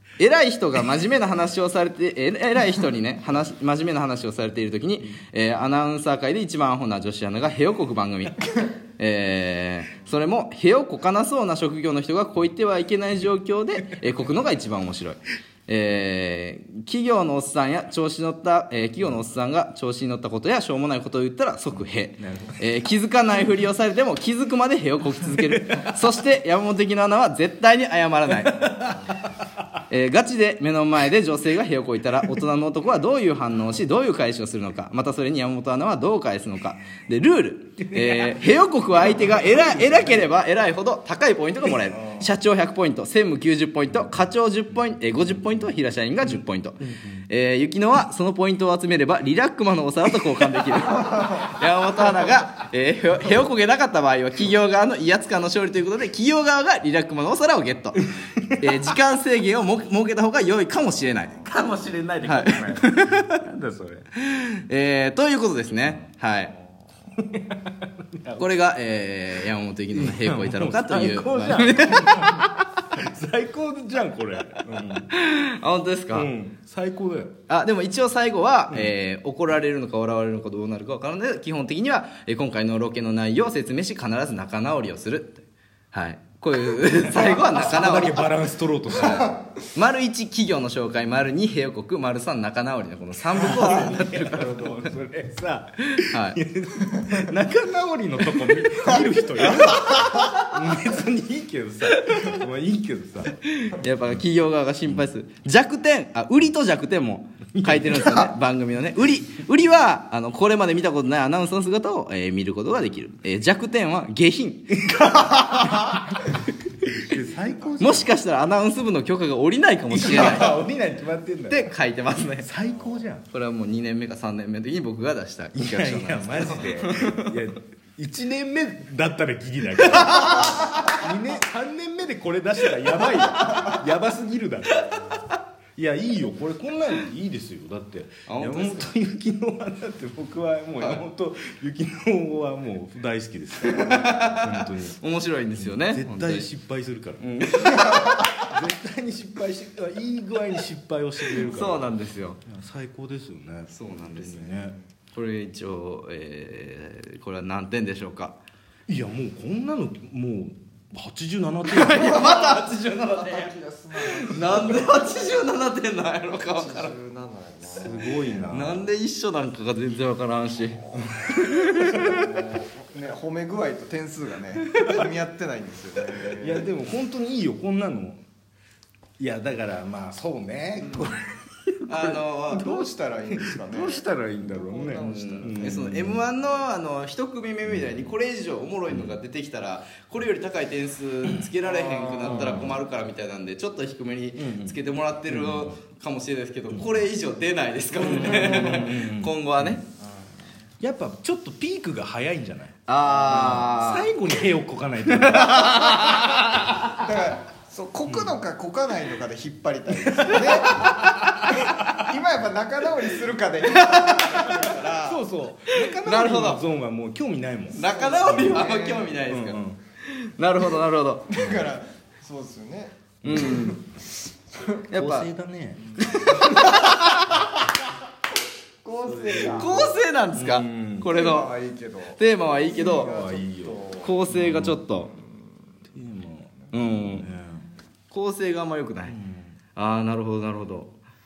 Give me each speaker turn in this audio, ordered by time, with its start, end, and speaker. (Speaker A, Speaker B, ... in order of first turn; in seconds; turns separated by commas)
Speaker A: 0.2-29.1, Speaker B: 21.7-22.6, Speaker B: 28.6-29.7, Speaker A: 29.9-58.0, Speaker B: 37.8-40.3, Speaker C: 41.9-42.3, Speaker B: 44.7-47.2, Speaker C: 50.9-51.3, Speaker B: 58.4-58.9, Speaker A: 58.6-61.4, Speaker B: 61.4-64.0, Speaker A: 62.2-63.4, Speaker A: 64.2-66.5, Speaker B: 67.2-68.5, Speaker A: 68.3-72.7, Speaker B: 69.9-75.1, Speaker A: 75.0-76.3, Speaker B: 76.1-77.3, Speaker A: 77.5-88.3, Speaker B: 87.1-89.3, Speaker A: 88.9-94.8, Speaker B: 93.3-103.4, Speaker A: 96.1-96.4, Speaker C: 99.4-100.4, Speaker A: 101.9-102.3, Speaker A: 103.4-115.8, Speaker B: 107.5-108.3, Speaker B: 114.7-116.3, Speaker B: 116.8-118.1, Speaker C: 117.1-118.1, Speaker A: 117.8-120.6, Speaker B: 119.9-121.7, Speaker A: 121.5-122.5, Speaker B: 122.4-123.2, Speaker A: 123.3-127.3, Speaker B: 125.5-135.0, Speaker A: 129.8-131.0, Speaker B: 135.8-145.0, Speaker A: 138.3-138.9, Speaker A: 143.7-146.5, Speaker B: 145.6-151.9, Speaker A: 147.2-148.4, Speaker A: 151.3-152.4, Speaker C: 151.4-151.7, Speaker B: 152.4-154.7, Speaker A: 153.7-154.5, Speaker C: 154.5-154.8, Speaker A: 155.1-158.4, Speaker B: 158.9-162.2, Speaker A: 161.7-166.9, Speaker C: 161.9-165.3, Speaker C: 166.4-168.5, Speaker B: 167.7-168.8, Speaker A: 168.5-172.2, Speaker C: 170.9-176.7, Speaker A: 174.7-175.0, Speaker B: 176.4-178.2, Speaker B: 179.2-186.2, Speaker C: 180.8-181.1, Speaker A: 181.9-182.8, Speaker C: 182.5-186.0, Speaker A: 185.0-199.8, Speaker B: 187.7-188.1, Speaker C: 191.6-192.7, Speaker B: 192.2-192.8, Speaker B: 194.3-195.8, Speaker B: 198.0-199.8, Speaker C: 200.0-200.3, Speaker B: 200.8-206.5, Speaker A: 202.9-204.1, Speaker C: 203.2-203.5, Speaker A: 205.1-206.9, Speaker C: 207.0-215.3, Speaker B: 208.0-208.3, Speaker B: 210.2-211.1, Speaker A: 210.9-211.2, Speaker A: 213.7-214.6, Speaker B: 215.0-219.8, Speaker A: 215.7-216.7, Speaker A: 217.7-221.5, Speaker C: 217.8-219.2, Speaker C: 221.3-224.1, Speaker B: 223.2-223.7, Speaker A: 223.2-223.8, Speaker A: 224.9-225.3, Speaker B: 224.9-226.0, Speaker C: 225.8-227.0, Speaker A: 226.0-227.4, Speaker C: 228.8-229.9, Speaker B: 229.0-229.8, Speaker A: 229.5-231.5, Speaker B: 230.3-231.1, Speaker C: 231.0-234.3, Speaker A: 232.2-233.1, Speaker B: 232.7-234.8, Speaker A: 234.0-235.1, Speaker C: 234.9-235.5, Speaker B: 235.9-237.6, Speaker A: 236.7-237.3, Speaker A: 238.1-239.2, Speaker B: 239.0-239.6, Speaker A: 239.7-240.9